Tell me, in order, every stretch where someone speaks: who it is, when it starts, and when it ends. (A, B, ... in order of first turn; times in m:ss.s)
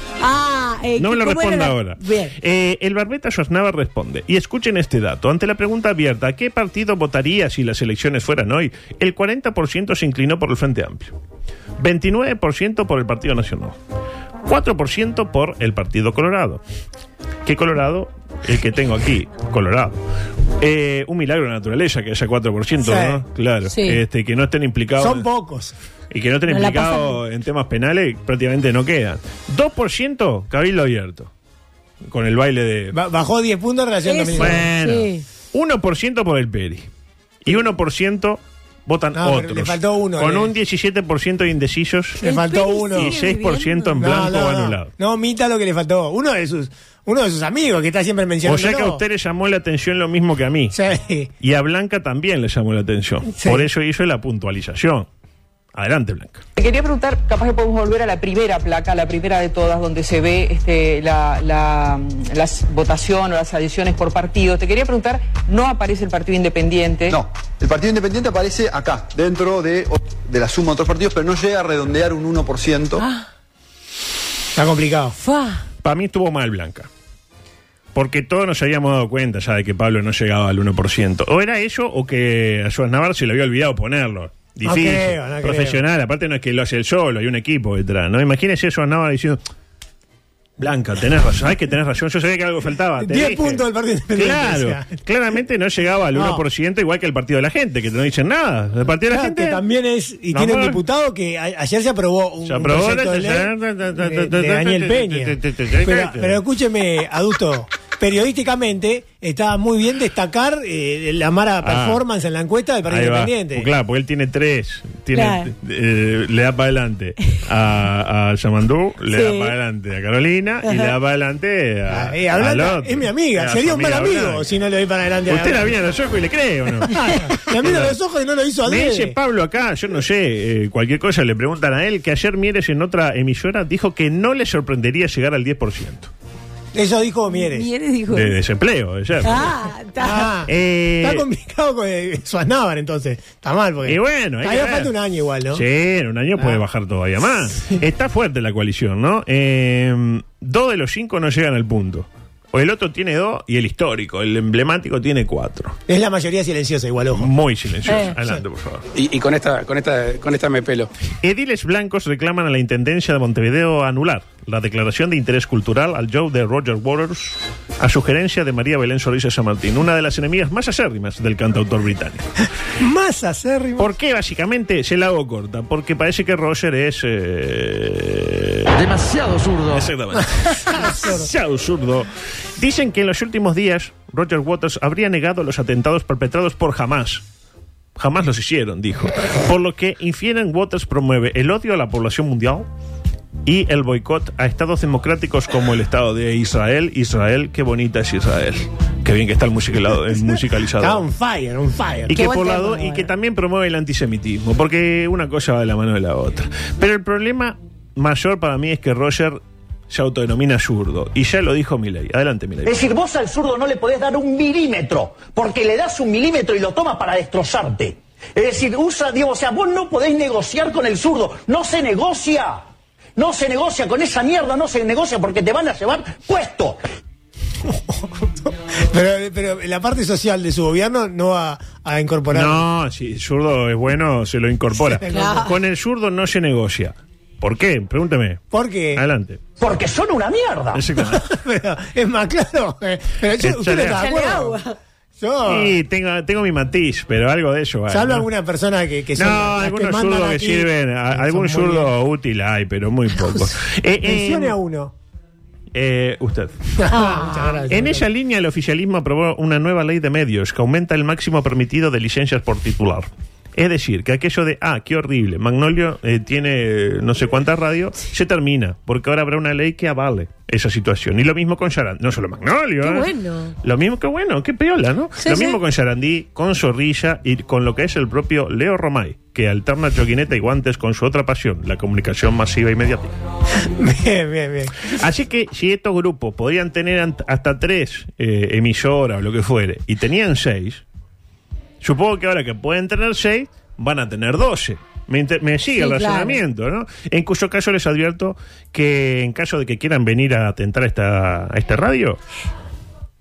0:00.2-0:02.4 A
0:01.0-0:11.1 B
0:11.8-0:13.8 B
0:14.4-0:16.6 B
0:17.4-0:20.0 B
0:20.6-0:25.3 B
0:22.8-0:23.2 C
0:23.7-0:24.0 A
0:25.0-0:25.8 C
0:26.1-0:31.3 B
0:26.5-0:27.2 A
0:32.1-0:33.0 B
0:32.9-0:34.6 C
0:34.0-0:35.2 A
0:34.3-0:36.9 B
0:37.4-0:42.2 B
0:39.2-0:40.5 C
0:42.2-0:43.2 C
0:42.2-0:44.1 A
0:42.9-0:44.9 B
0:44.0-0:49.0 C
0:48.4-0:50.8 B
0:50.7-0:51.3 C
0:51.4-0:55.1 B
0:53.4-0:53.7 C
0:55.8-0:56.4 B
0:56.6-1:07.2 D
1:07.1-1:13.0 E
1:13.0-1:13.3 A
1:14.6-1:15.2 C
1:15.2-1:15.6 A
1:15.8-1:16.9 B
1:18.0-1:29.4 B
1:24.6-1:25.8 C
1:30.6-1:39.6 B
1:33.0-1:34.8 C
1:36.1-1:36.4 C
1:39.1-1:53.7 C
1:40.3-1:40.8 B
1:42.4-1:46.4 B
1:51.6-1:52.0 B
1:52.9-2:04.5 B
1:55.1-1:55.5 A
1:59.1-1:59.5 A
2:00.6-2:00.9 A
2:01.9-2:05.7 C
2:05.3-2:06.9 B
2:06.8-2:09.2 C
2:07.6-2:08.0 B
2:08.6-2:16.1 B
2:16.7-2:17.7 C
2:17.3-2:18.3 A
2:18.1-2:19.6 B
2:19.2-2:20.3 A
2:20.0-2:20.5 C
2:20.5-2:21.2 B
2:21.0-2:25.6 C
2:23.9-2:24.9 B
2:25.5-2:35.8 B
2:35.9-2:37.3 C
2:37.1-2:38.8 B
2:37.9-2:38.1 A
2:39.0-2:40.9 F
2:41.2-2:52.3 B
2:52.8-2:53.9 C
2:53.8-3:07.2 B
3:00.2-3:01.3 C
3:08.0-3:12.7 B
3:13.5-3:21.0 B
3:20.8-3:22.1 C
3:22.1-3:32.9 B
3:22.1-3:23.1 A
3:32.6-3:42.6 G
3:43.2-3:46.8 G
3:47.7-3:52.6 C
3:52.3-3:59.4 B
3:54.8-3:55.5 C
3:55.1-3:55.5 A
3:58.5-3:59.0 C
3:59.6-4:00.8 G
4:00.7-4:01.3 B
4:01.0-4:04.6 C
4:03.4-4:04.1 B
4:03.9-4:04.7 A
4:05.2-4:05.7 C
4:05.4-4:08.3 B
4:07.9-4:11.9 C
4:09.2-4:14.6 B
4:14.0-4:14.9 C
4:15.7-4:16.5 B
4:16.8-4:18.0 C
4:16.9-4:17.7 A
4:17.7-4:33.1 B
4:32.8-4:33.5 A
4:33.6-4:43.1 B
4:35.2-4:35.6 A
4:43.6-4:44.9 C
4:44.9-4:50.8 B
4:51.8-5:02.2 B
4:55.8-4:56.4 A